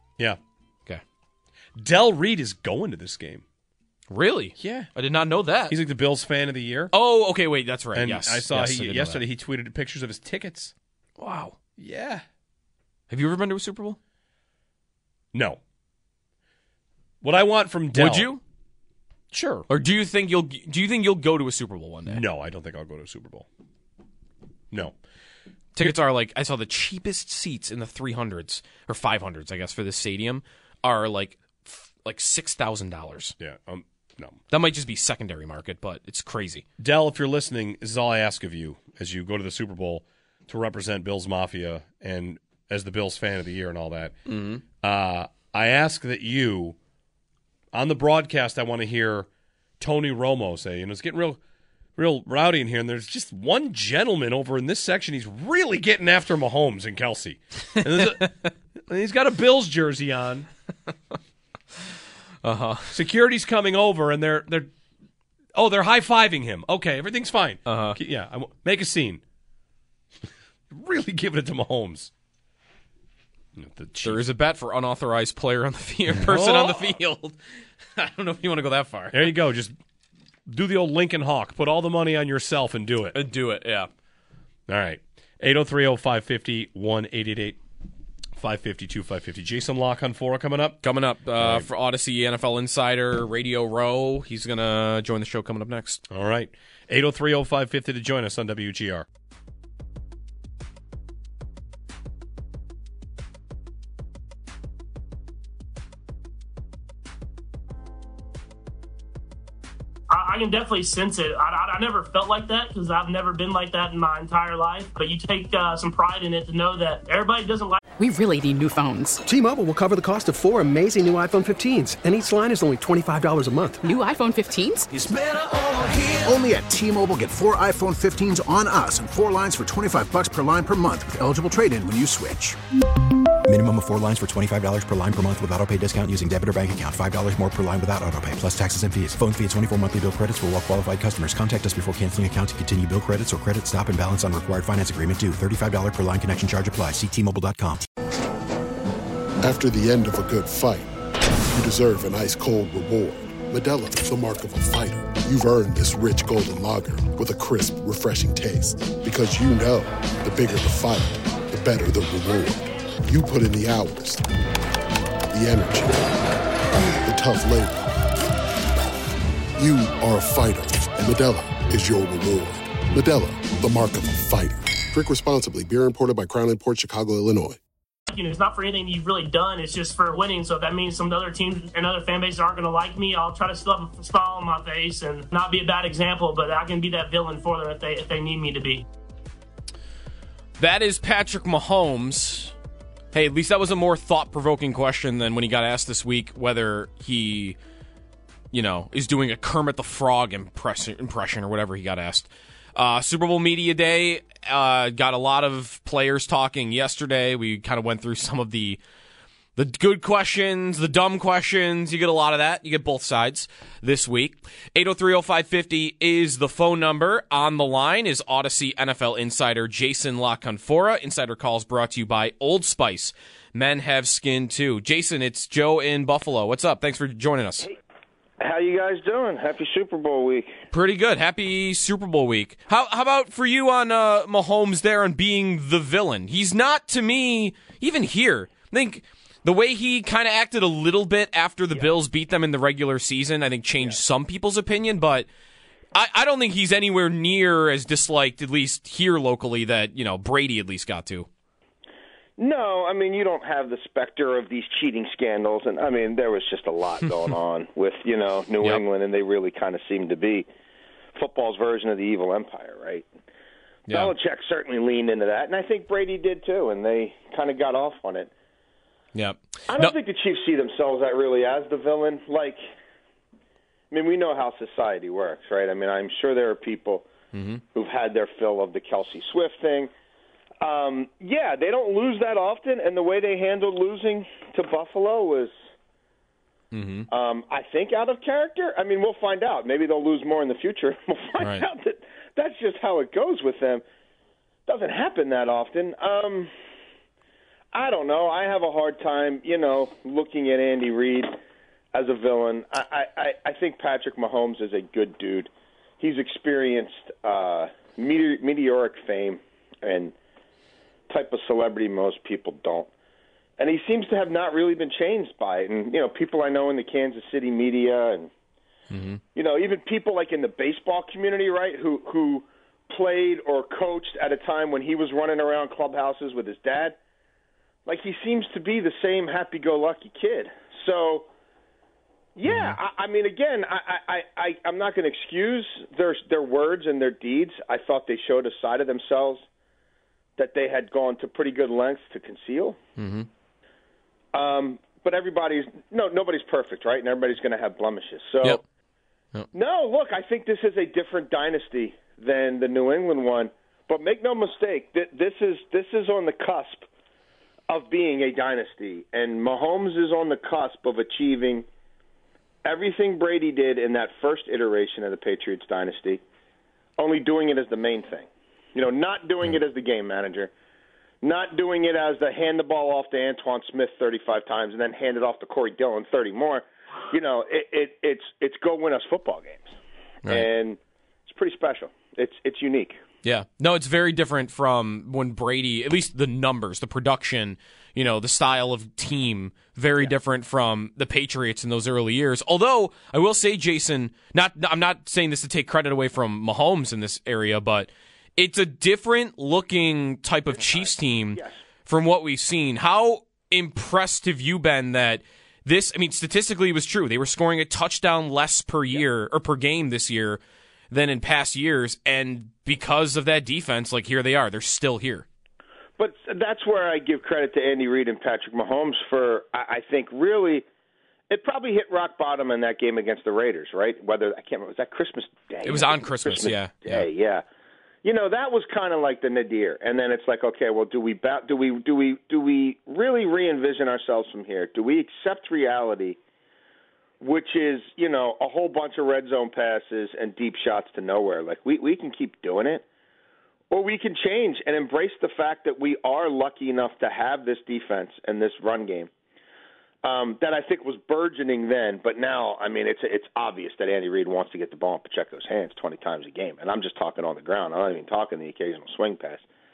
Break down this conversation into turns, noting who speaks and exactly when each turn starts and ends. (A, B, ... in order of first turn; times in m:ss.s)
0:01.8-0:03.4 A
0:04.1-0:05.8 B
0:04.6-0:04.9 A
0:05.7-0:06.9 A
0:06.9-0:09.2 B
0:07.9-0:10.7 A
0:11.2-0:11.6 B
0:11.8-0:12.2 A
0:13.1-0:14.0 B
0:15.3-0:15.6 A
0:17.2-0:18.3 A
0:17.9-0:18.4 B
0:19.3-0:19.7 A
0:19.7-0:22.2 B
0:22.1-0:23.5 A
0:25.8-0:33.4 B
0:33.4-0:34.4 A
0:34.5-0:36.6 B
0:36.8-0:44.2 A
0:44.3-0:44.6 B
0:44.8-0:46.8 A
0:47.7-0:49.3 A
0:49.8-0:51.4 A
0:52.0-0:58.3 A
0:58.9-1:00.5 A
1:02.4-1:02.9 B
1:02.9-1:04.7 A
1:05.6-1:09.2 A
1:07.7-1:08.0 B
1:10.7-1:12.1 A
1:13.6-1:14.2 A
1:14.0-1:17.4 B
1:16.2-1:17.0 A
1:18.0-1:19.3 B
1:19.1-1:19.7 A
1:20.5-1:23.2 A
1:23.1-1:23.9 B
1:24.7-1:27.6 A
1:28.4-1:30.8 A
1:30.8-1:36.0 B
1:31.4-1:31.7 A
1:36.1-1:39.0 A
1:50.1-1:57.8 C
1:58.0-1:59.2 D
1:59.2-2:03.8 E
2:03.8-2:04.9 D
2:04.9-2:12.6 F
2:13.4-2:27.8 G
2:29.4-2:30.9 H
2:31.5-2:44.3 H
2:45.3-2:46.2 H
2:46.8-2:47.9 H
2:49.6-2:57.6 H
2:58.1-3:08.8 C
3:10.6-3:12.5 B
3:13.1-3:17.6 B
3:18.5-3:28.8 B
3:29.6-3:47.7 B
3:48.4-3:50.5 I
3:50.7-4:05.3 B
4:05.9-4:11.3 B
4:12.4-4:20.5 I
4:21.2-4:23.1 I
4:23.9-4:24.1 B
4:23.9-4:28.3 I
4:29.1-4:29.9 B
4:29.7-4:32.6 I
4:33.9-4:37.1 I
4:37.3-4:37.6 B
4:37.7-4:39.9 I
4:40.6-4:45.5 I
4:46.7-4:47.1 B
4:47.1-4:53.8 I
4:51.4-4:51.6 B
4:54.7-4:56.5 I
4:57.7-5:01.4 I
5:01.9-5:10.1 I
5:11.1-5:12.9 I
5:13.6-5:18.3 I
5:18.9-5:19.2 B
5:19.3-5:27.0 I
5:27.8-5:31.3 I
5:32.4-5:39.4 I
5:32.4-5:32.8 B
5:40.4-5:42.8 I
5:43.0-5:43.3 B
5:44.3-5:48.6 I
5:49.5-5:56.9 I
5:57.7-6:01.6 I
6:02.6-6:06.2 I
6:07.0-6:10.5 I
6:11.2-6:19.7 I
6:20.2-6:23.0 I
6:23.2-6:50.4 B
6:40.5-6:41.6 I
6:50.9-6:55.2 B
6:56.0-7:00.6 I
7:01.3-7:07.4 I
7:05.6-7:07.1 B
7:08.0-7:16.2 I
7:17.2-7:22.8 I
7:23.7-7:29.1 I
7:30.0-7:39.4 I